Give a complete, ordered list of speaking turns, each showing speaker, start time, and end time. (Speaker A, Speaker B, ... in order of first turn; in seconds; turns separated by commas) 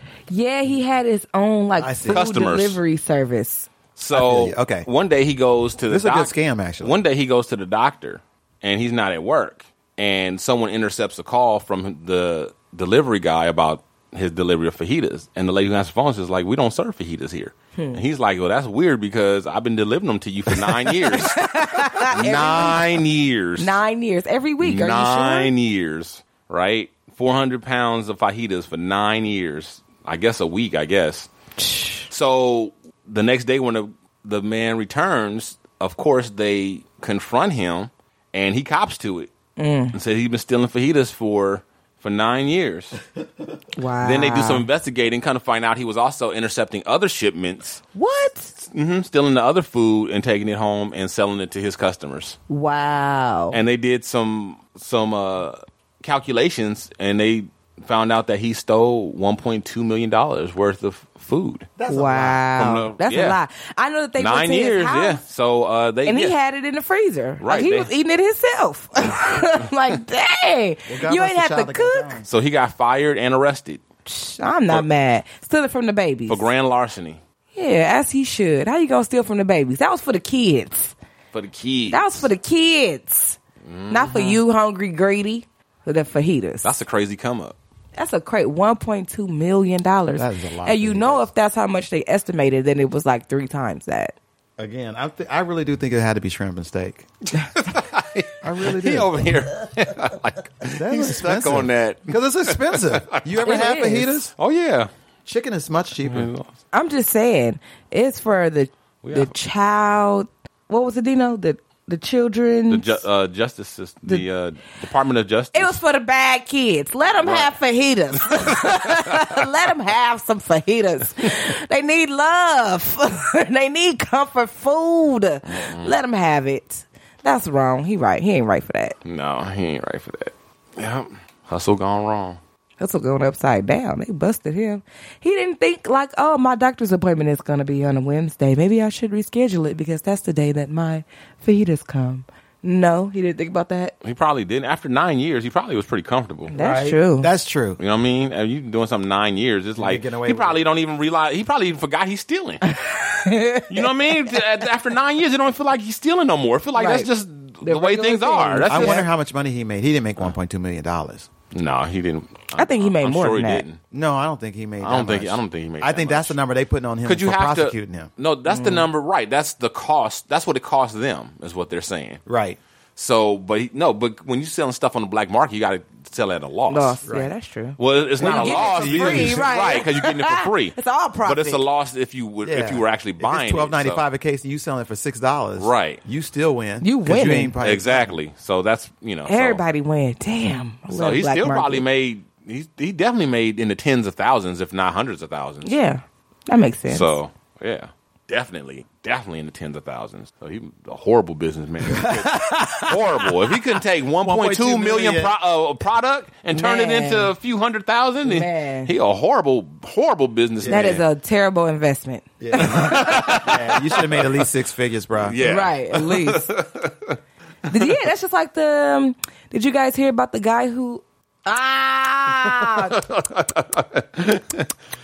Speaker A: 0.3-3.7, Speaker B: 1.8-2.2, Speaker C: 2.0-2.8, Speaker C: 4.0-23.8, Speaker B: 4.1-4.9, Speaker B: 5.9-7.0, Speaker A: 21.1-22.8, Speaker B: 22.1-23.0, Speaker A: 23.6-25.5, Speaker C: 24.6-31.3, Speaker A: 31.6-32.0, Speaker C: 32.1-39.3, Speaker A: 39.6-39.9, Speaker C: 39.9-43.0, Speaker A: 43.8-44.6, Speaker C: 44.0-47.8, Speaker A: 47.9-48.5, Speaker C: 48.6-52.4, Speaker A: 52.5-53.6, Speaker C: 53.5-61.7, Speaker B: 61.8-62.4, Speaker A: 61.9-65.2, Speaker C: 62.5-63.4, Speaker C: 64.2-66.3, Speaker A: 66.0-72.2, Speaker C: 67.4-67.9, Speaker B: 70.9-72.2, Speaker C: 72.2-73.8, Speaker A: 74.0-76.5, Speaker C: 76.3-77.2, Speaker A: 77.5-80.9, Speaker C: 81.3-82.3, Speaker A: 81.9-83.4, Speaker C: 83.6-84.4, Speaker A: 83.9-86.7, Speaker C: 86.6-87.5, Speaker A: 88.0-94.1, Speaker B: 90.2-91.3, Speaker B: 94.6-97.0, Speaker C: 97.5-104.9, Speaker B: 98.4-99.2, Speaker B: 100.7-104.3, Speaker A: 103.4-104.1, Speaker B: 105.2-106.3, Speaker C: 106.0-106.5, Speaker A: 106.7-113.0, Speaker C: 109.0-109.3, Speaker C: 112.7-115.8, Speaker A: 115.5-128.9, Speaker C: 117.2-117.5, Speaker C: 118.1-119.3, Speaker C: 125.5-125.9, Speaker C: 129.0-132.4, Speaker A: 132.8-143.9, Speaker C: 144.0-146.8, Speaker A: 146.5-147.3, Speaker B: 147.2-147.8, Speaker C: 147.8-152.6, Speaker B: 149.8-150.6, Speaker A: 152.6-154.4, Speaker C: 153.7-159.0, Speaker A: 156.8-157.1, Speaker A: 157.6-159.0, Speaker B: 158.7-161.3, Speaker C: 161.5-163.8, Speaker A: 162.6-163.6, Speaker B: 163.9-168.1, Speaker C: 164.8-166.4, Speaker C: 167.0-172.2, Speaker A: 168.5-168.8, Speaker B: 172.2-172.6, Speaker C: 172.9-177.0, Speaker A: 176.7-181.6, Speaker B: 177.0-177.3, Speaker C: 177.8-184.0, Speaker B: 178.2-179.7, Speaker B: 182.4-188.2, Speaker C: 185.6-186.0, Speaker A: 186.8-187.6, Speaker C: 187.6-189.6, Speaker A: 189.3-191.8, Speaker C: 190.9-195.8, Speaker A: 195.6-197.1, Speaker C: 196.9-211.0, Speaker B: 201.8-203.6, Speaker B: 204.2-205.3, Speaker A: 206.5-207.3, Speaker A: 208.2-208.9, Speaker B: 210.6-211.0, Speaker A: 210.7-213.5, Speaker B: 212.4-215.4, Speaker C: 212.6-214.3, Speaker C: 215.2-217.2, Speaker A: 215.4-216.5, Speaker A: 217.7-223.0, Speaker C: 222.4-224.7